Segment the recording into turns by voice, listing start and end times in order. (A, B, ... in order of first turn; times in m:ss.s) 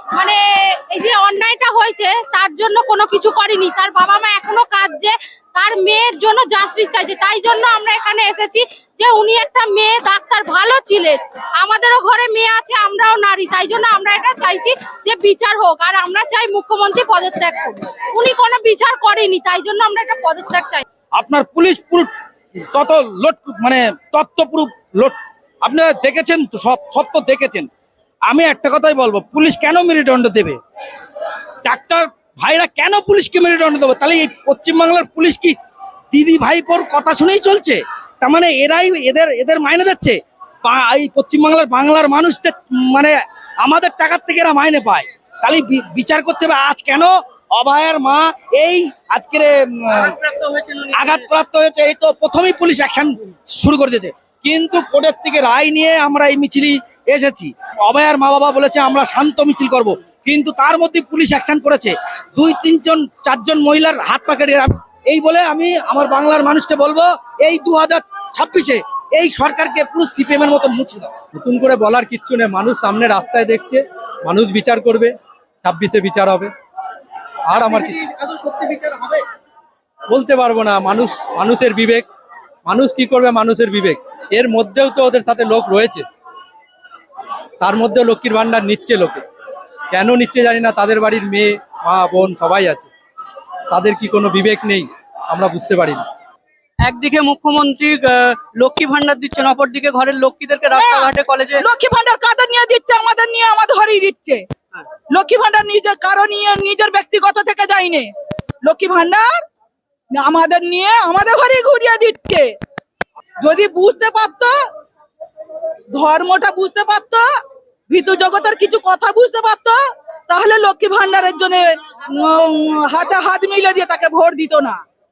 0:00.2-0:20.8 A
0:21.1-0:27.7 B
0:28.3-0:30.6 B
0:31.6-0:35.6 B
0:36.1-0:50.2 B
0:50.3-0:50.8 C
0:50.9-1:11.1 B
1:11.4-1:15.1 D
1:15.6-1:16.5 D
1:17.5-1:18.0 D
1:18.0-1:19.2 B
1:20.1-1:22.1 D
1:22.7-1:26.0 D
1:27.6-1:29.2 D
1:29.9-1:32.9 D
1:33.7-1:36.1 D
1:36.8-1:41.6 C
1:40.7-1:44.4 E
1:45.1-1:48.1 E
1:48.6-1:49.3 E
1:50.1-1:52.5 E
1:53.4-1:54.6 E
1:55.9-1:57.3 E
1:57.9-1:59.8 E
2:00.3-2:04.8 E